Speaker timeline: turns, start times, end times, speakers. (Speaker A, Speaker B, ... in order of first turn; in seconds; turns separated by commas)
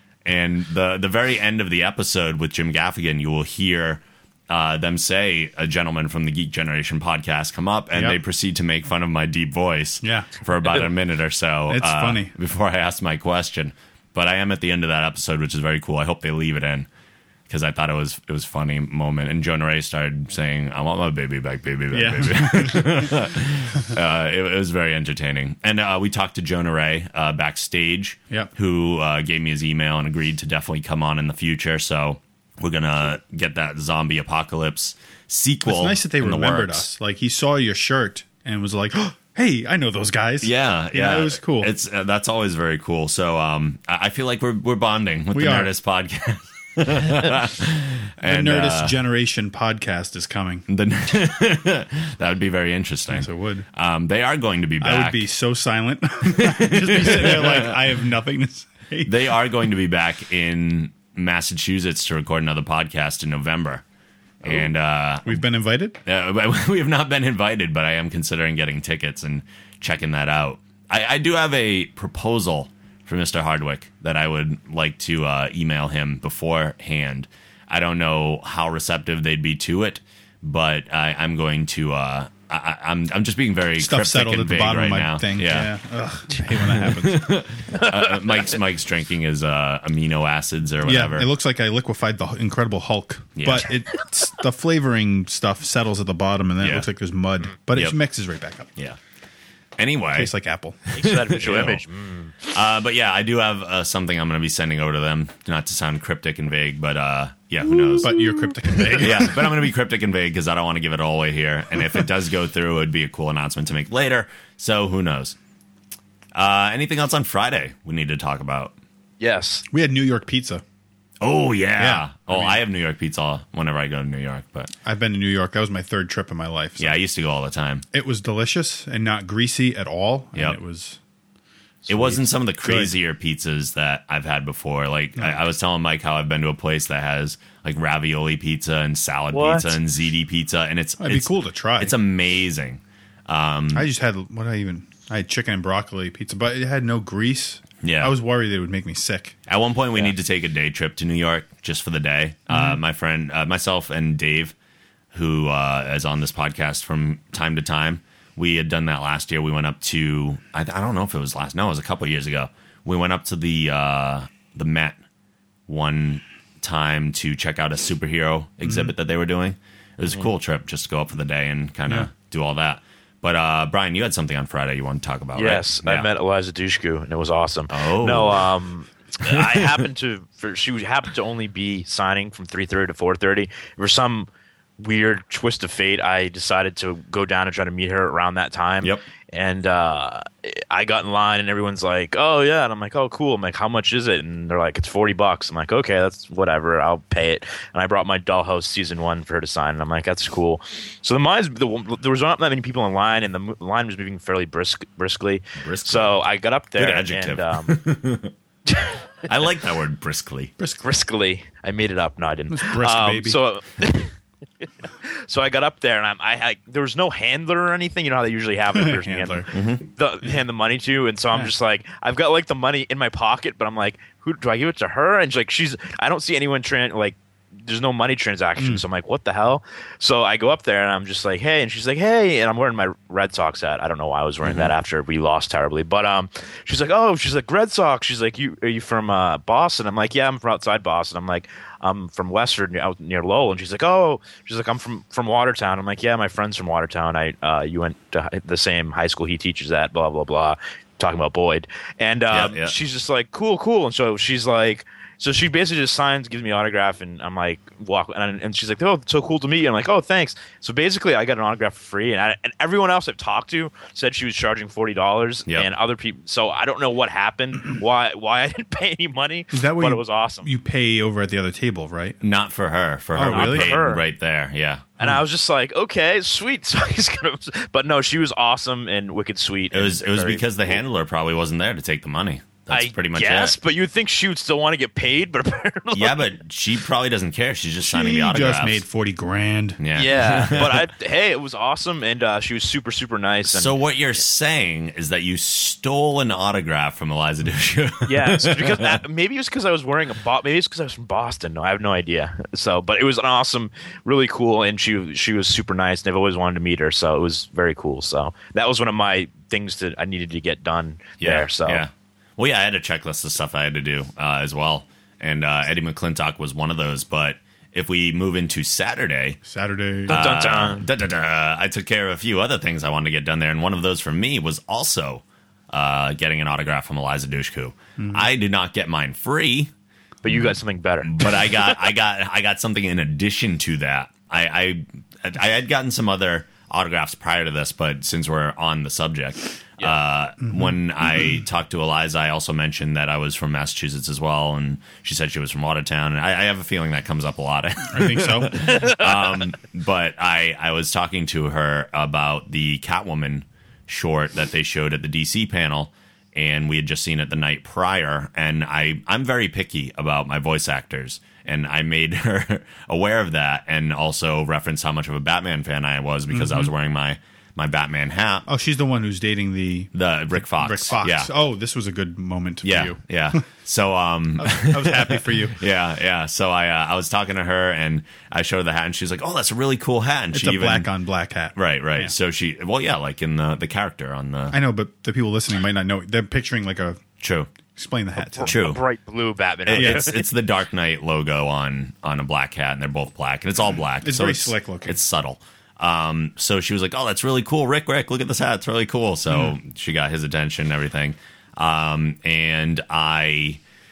Speaker A: 0.2-16.9, Speaker B: 7.9-8.2, Speaker B: 10.0-10.3, Speaker B: 11.7-12.3, Speaker A: 17.5-36.9, Speaker B: 21.9-23.1, Speaker B: 35.6-41.7, Speaker A: 40.4-49.0, Speaker B: 45.3-45.7, Speaker B: 48.2-50.6, Speaker A: 50.7-55.3, Speaker B: 53.1-53.6, Speaker B: 54.8-59.3, Speaker A: 56.3-57.8, Speaker A: 59.0-63.8, Speaker A: 64.4-65.4, Speaker B: 65.2-66.0, Speaker A: 66.0-85.7, Speaker B: 83.8-87.3, Speaker A: 86.5-91.3, Speaker C: 87.7-88.2, Speaker B: 90.8-98.7, Speaker A: 93.3-93.7, Speaker A: 96.6-96.9, Speaker A: 97.7-98.0, Speaker A: 99.8-100.3, Speaker B: 100.1-100.8, Speaker C: 100.9-102.3, Speaker A: 101.0-101.8, Speaker A: 102.5-108.2, Speaker B: 108.0-109.5, Speaker A: 108.9-115.3, Speaker A: 116.3-118.7, Speaker C: 119.2-119.6, Speaker B: 119.7-120.6, Speaker A: 121.2-124.7, Speaker B: 121.8-122.6, Speaker B: 124.8-126.9, Speaker A: 126.8-127.8, Speaker B: 127.9-131.0, Speaker A: 131.9-143.9, Speaker B: 131.9-132.9, Speaker C: 139.3-139.7, Speaker B: 141.0-142.0, Speaker B: 143.7-149.3, Speaker A: 147.8-148.1, Speaker A: 149.5-154.5, Speaker B: 152.5-152.8, Speaker A: 155.1-165.0, Speaker A: 165.7-176.1, Speaker B: 168.6-168.9, Speaker C: 175.3-184.3, Speaker A: 177.7-178.4, Speaker A: 179.3-179.6, Speaker C: 184.8-207.7, Speaker A: 205.6-206.2, Speaker A: 206.8-208.3, Speaker C: 208.7-208.9, Speaker A: 209.3-210.5, Speaker C: 210.8-214.1, Speaker B: 212.5-213.4, Speaker C: 215.0-270.5, Speaker B: 218.7-219.5, Speaker A: 219.5-219.8, Speaker B: 228.6-228.8, Speaker A: 234.4-234.7, Speaker A: 252.3-252.7, Speaker B: 269.5-272.2, Speaker A: 272.2-274.9, Speaker B: 273.1-273.8, Speaker C: 273.2-274.0, Speaker C: 275.0-280.8, Speaker A: 279.7-283.6, Speaker C: 282.7-286.3, Speaker A: 285.9-288.8, Speaker B: 287.8-289.8, Speaker A: 289.8-290.9, Speaker C: 289.9-293.7, Speaker A: 293.5-298.9, Speaker C: 298.0-311.8, Speaker A: 311.2-319.4, Speaker B: 319.4-320.2, Speaker C: 320.1-320.9, Speaker A: 320.1-329.7, Speaker B: 328.0-328.3, Speaker C: 330.2-331.7, Speaker A: 331.0-368.4, Speaker B: 340.4-341.4, Speaker B: 347.9-348.6, Speaker C: 348.6-349.1, Speaker B: 366.3-366.7, Speaker B: 368.5-373.4, Speaker A: 369.9-371.3, Speaker A: 372.6-380.9, Speaker B: 374.4-375.6, Speaker B: 380.3-382.1, Speaker A: 381.5-384.6, Speaker B: 384.5-387.0, Speaker A: 387.2-387.5, Speaker B: 387.7-388.6, Speaker C: 388.3-390.2, Speaker A: 388.5-388.8, Speaker A: 389.7-403.6, Speaker B: 389.7-390.1, Speaker B: 394.0-395.0, Speaker B: 399.3-399.5